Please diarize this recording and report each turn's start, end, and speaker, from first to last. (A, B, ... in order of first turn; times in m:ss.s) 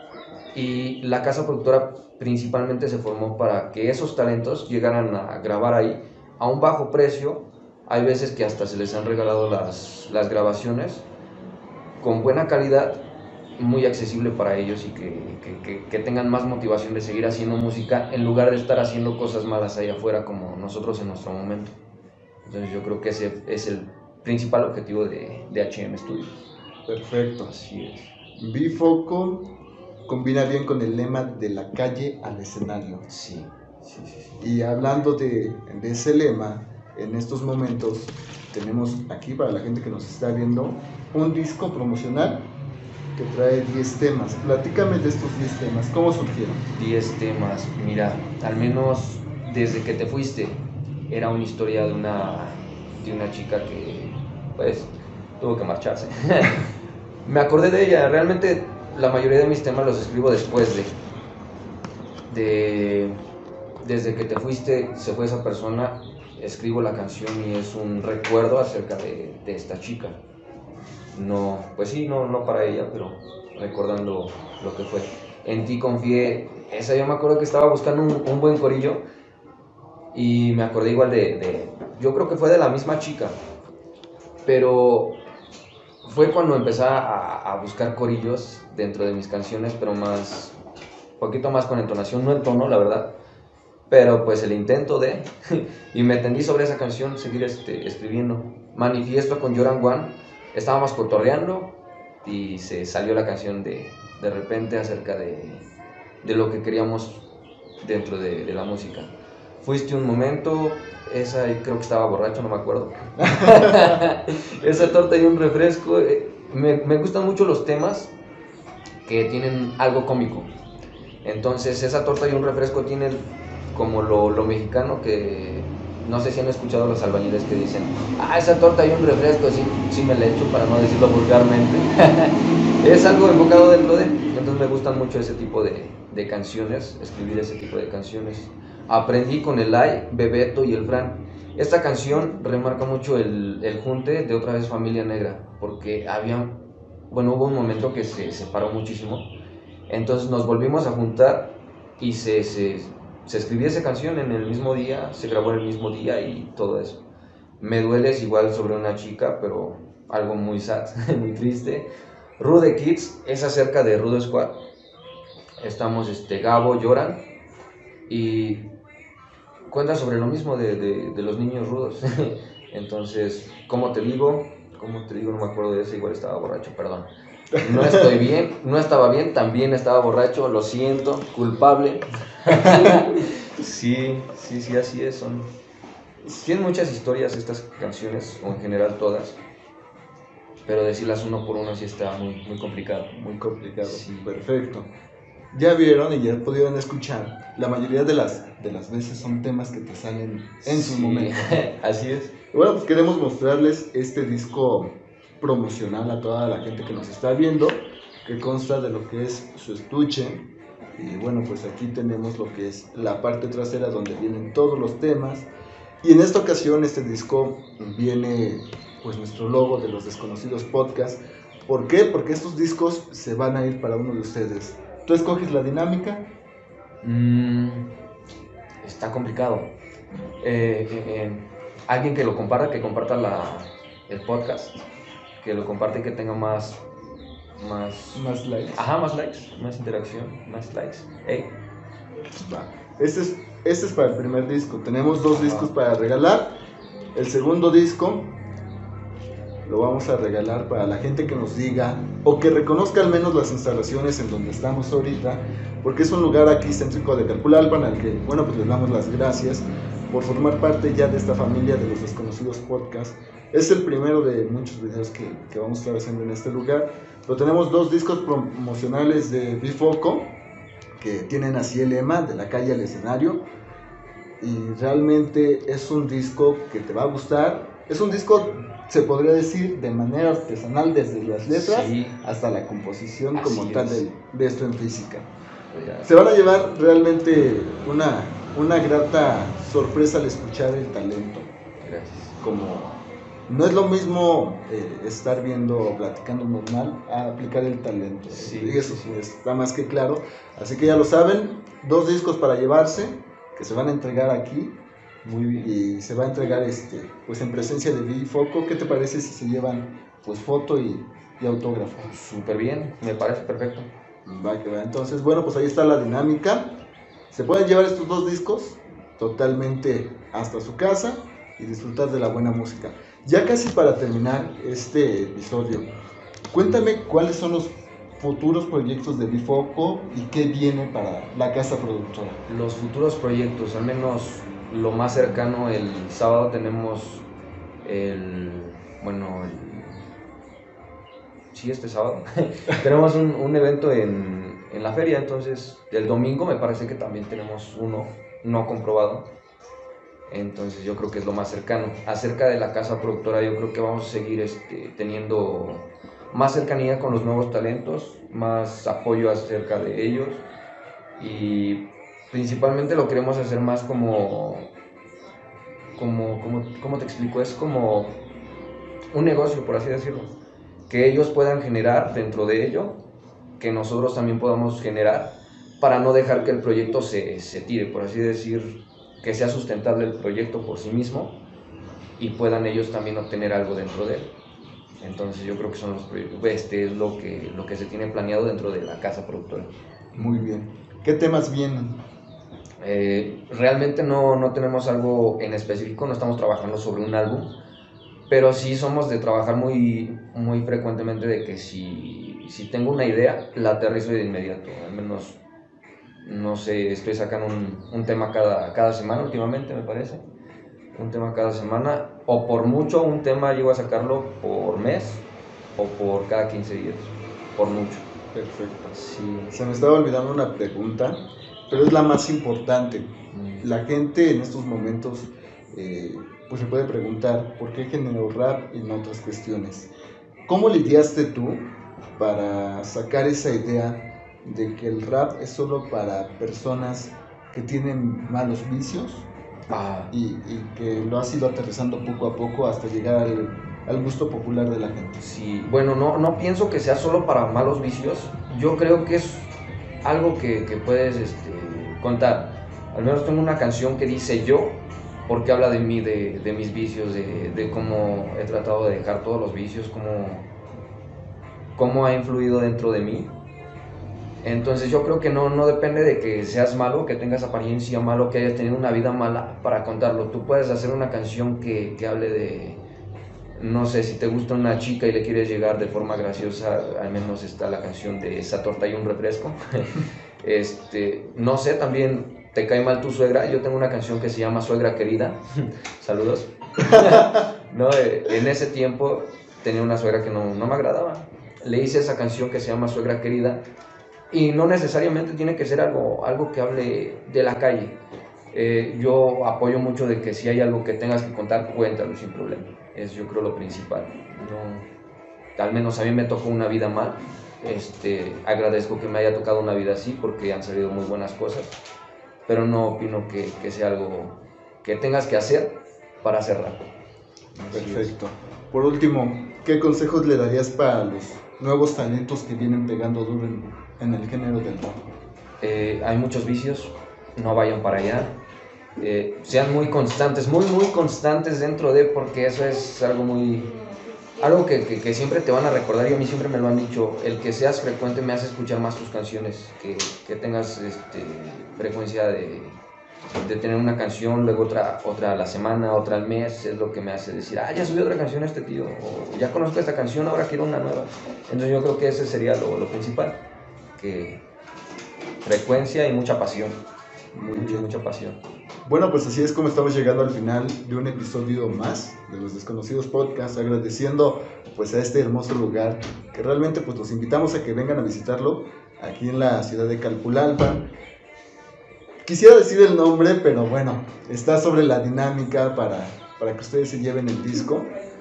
0:00.5-0:11.0 A
0:12.0-0:13.0 A
0:13.6-0:21.7 A
0:22.4-0:26.4 A
0:26.9-0:27.5 B
0:27.4-0:28.1 A
0:28.4-0:29.4 B
0:30.1-0:33.0 B
0:33.1-0:34.5 A
0:34.4-0:42.5 B
0:43.1-0:46.6 B
0:46.7-0:56.7 A
0:57.2-1:00.9 A
1:02.3-1:03.2 A
1:03.8-1:10.2 A
1:11.1-1:19.0 A
1:20.1-1:23.4 A
1:24.4-1:25.2 A
1:26.0-1:30.5 A
1:31.2-1:33.1 A
1:33.9-1:45.6 A
1:46.2-1:47.2 A
1:47.8-1:49.1 A
1:49.6-1:58.1 A
1:53.2-1:54.0 B
1:59.0-2:00.5 A
2:01.2-2:26.6 A
2:27.1-2:29.3 A
2:29.9-2:37.0 A
2:37.6-2:44.6 A
2:45.6-2:47.2 A
2:48.1-2:48.7 A
2:49.7-3:05.5 A
2:57.5-2:58.2 B
3:02.5-3:03.0 B
3:06.2-3:09.4 A
3:10.6-3:13.2 A
3:13.1-3:14.9 B
3:13.8-3:14.4 A
3:15.5-3:21.3 B
3:20.6-3:22.3 A
3:22.5-3:35.5 B
3:36.0-3:46.3 B
3:47.0-3:47.9 A
3:48.8-3:49.7 A
3:50.4-3:54.8 A
3:55.4-3:56.8 A
3:57.6-4:01.5 A
3:58.1-3:58.8 B
4:02.3-4:06.5 B
4:05.3-4:05.7 A
4:07.1-4:08.3 B
4:09.6-4:30.3 B
4:31.0-4:33.4 B
4:34.4-4:45.3 B
4:41.5-4:42.2 A
4:43.3-4:44.0 A
4:45.7-4:46.1 A
4:46.0-4:51.5 B
4:51.8-4:52.4 A
4:52.4-5:04.8 B
4:58.3-4:59.2 A
5:05.2-5:05.6 A
5:05.5-5:12.1 B
5:12.0-5:13.9 A
5:14.2-5:16.7 B
5:17.3-5:25.9 B
5:26.5-5:32.4 B
5:32.5-5:37.2 A
5:37.8-5:40.0 A
5:41.5-5:49.3 A
5:50.3-6:00.4 A
6:01.2-6:04.7 A
6:06.0-6:08.2 A
6:09.1-6:10.3 A
6:10.9-6:13.0 A
6:13.6-6:21.3 A
6:22.2-6:24.3 A
6:25.0-6:30.4 A
6:30.1-6:32.0 B
6:32.8-6:37.5 A
6:38.3-6:45.4 A
6:46.2-6:50.2 A
6:50.9-6:55.2 A
6:55.8-6:58.0 A
6:58.3-6:58.9 B
6:58.9-6:59.6 A
6:59.5-7:09.9 B
7:03.3-7:03.7 A
7:10.4-7:19.3 B
7:19.7-7:20.1 A
7:20.1-7:25.2 B
7:25.2-7:29.5 A
7:30.0-7:40.5 A
7:41.8-7:43.3 A
7:44.4-7:52.8 A
7:53.6-8:13.6 A
8:06.9-8:07.4 B
8:14.3-8:18.0 A
8:18.5-8:24.9 A
8:25.6-8:31.8 A
8:32.4-8:36.8 A
8:37.5-8:38.1 A
8:37.7-8:45.0 B
8:45.6-8:48.4 A
8:49.0-8:53.7 A
8:54.4-9:02.8 A
9:03.3-9:13.4 A
9:14.0-9:14.4 A
9:15.4-9:16.8 A
9:17.3-9:17.9 B
9:17.5-9:18.4 A
9:18.8-9:30.8 B
9:32.2-9:37.9 B